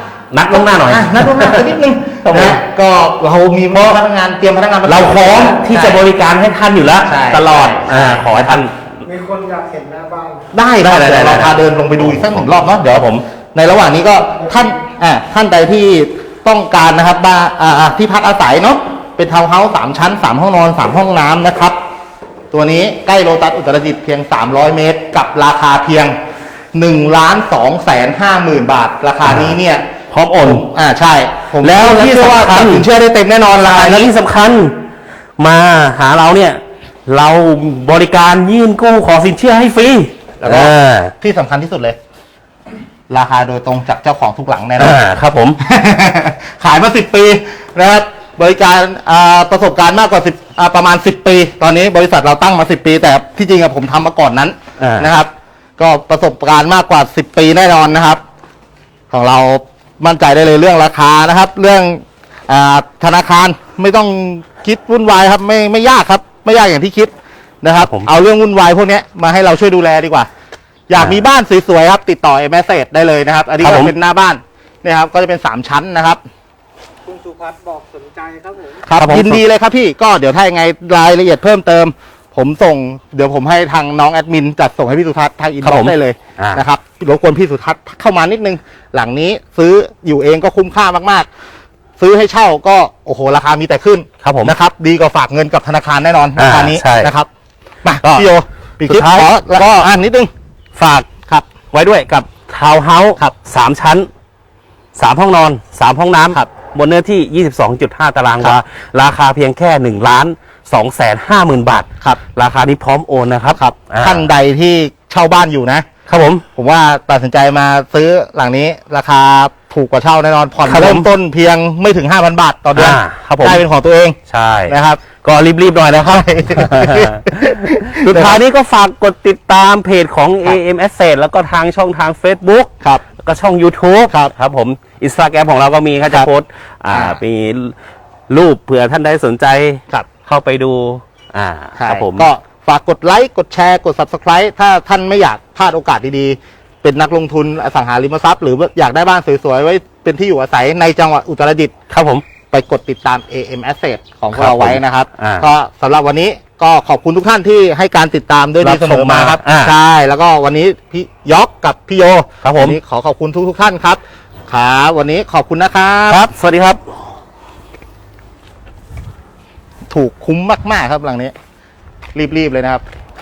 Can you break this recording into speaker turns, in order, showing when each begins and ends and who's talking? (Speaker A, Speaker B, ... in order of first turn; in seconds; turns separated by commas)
Speaker A: 0.3-2.6, Speaker B: 0.5-6.0, Speaker A: 3.7-4.0, Speaker A: 4.8-9.1, Speaker B: 7.0-8.6, Speaker C: 9.1-10.3, Speaker B: 10.5-21.8, Speaker A: 10.8-13.2, Speaker B: 22.5-26.1, Speaker B: 26.7-29.9, Speaker A: 29.2-29.6, Speaker A: 30.1-30.6, Speaker B: 30.4-34.1, Speaker A: 31.6-32.9, Speaker A: 33.5-34.7, Speaker A: 35.4-41.1, Speaker B: 40.4-42.0, Speaker B: 43.1-45.0, Speaker A: 44.8-45.6, Speaker B: 45.6-58.2, Speaker A: 54.8-55.1, Speaker B: 59.1-70.3, Speaker A: 67.8-68.1, Speaker B: 70.9-76.2, Speaker A: 71.0-71.2, Speaker A: 73.6-73.9, Speaker C: 77.1-78.7, Speaker B: 78.8-91.3, Speaker A: 78.9-79.4, Speaker A: 85.6-86.6, Speaker B: 92.0-97.3, Speaker A: 94.2-94.5, Speaker A: 96.4-97.1, Speaker B: 97.8-100.3, Speaker A: 98.0-98.3, Speaker A: 98.8-99.8, Speaker A: 100.8-101.1, Speaker A: 101.7-104.1, Speaker A: 105.0-114.3, Speaker B: 113.5-115.9, Speaker A: 116.1-116.4, Speaker B: 116.5-124.2, Speaker A: 120.7-121.1, Speaker A: 122.7-123.6, Speaker A: 124.3-137.8, Speaker B: 124.7-125.0, Speaker B: 125.9-128.4, Speaker B: 136.0-136.3, Speaker B: 136.9-137.2, Speaker A: 138.3-142.3, Speaker B: 141.8-151.7, Speaker A: 151.9-152.3, Speaker B: 152.5-166.3, Speaker A: 154.3-155.5, Speaker A: 158.6-159.7, Speaker A: 162.4-162.8, Speaker A: 166.1-166.8, Speaker B: 169.9-171.3, Speaker B: 172.1-172.8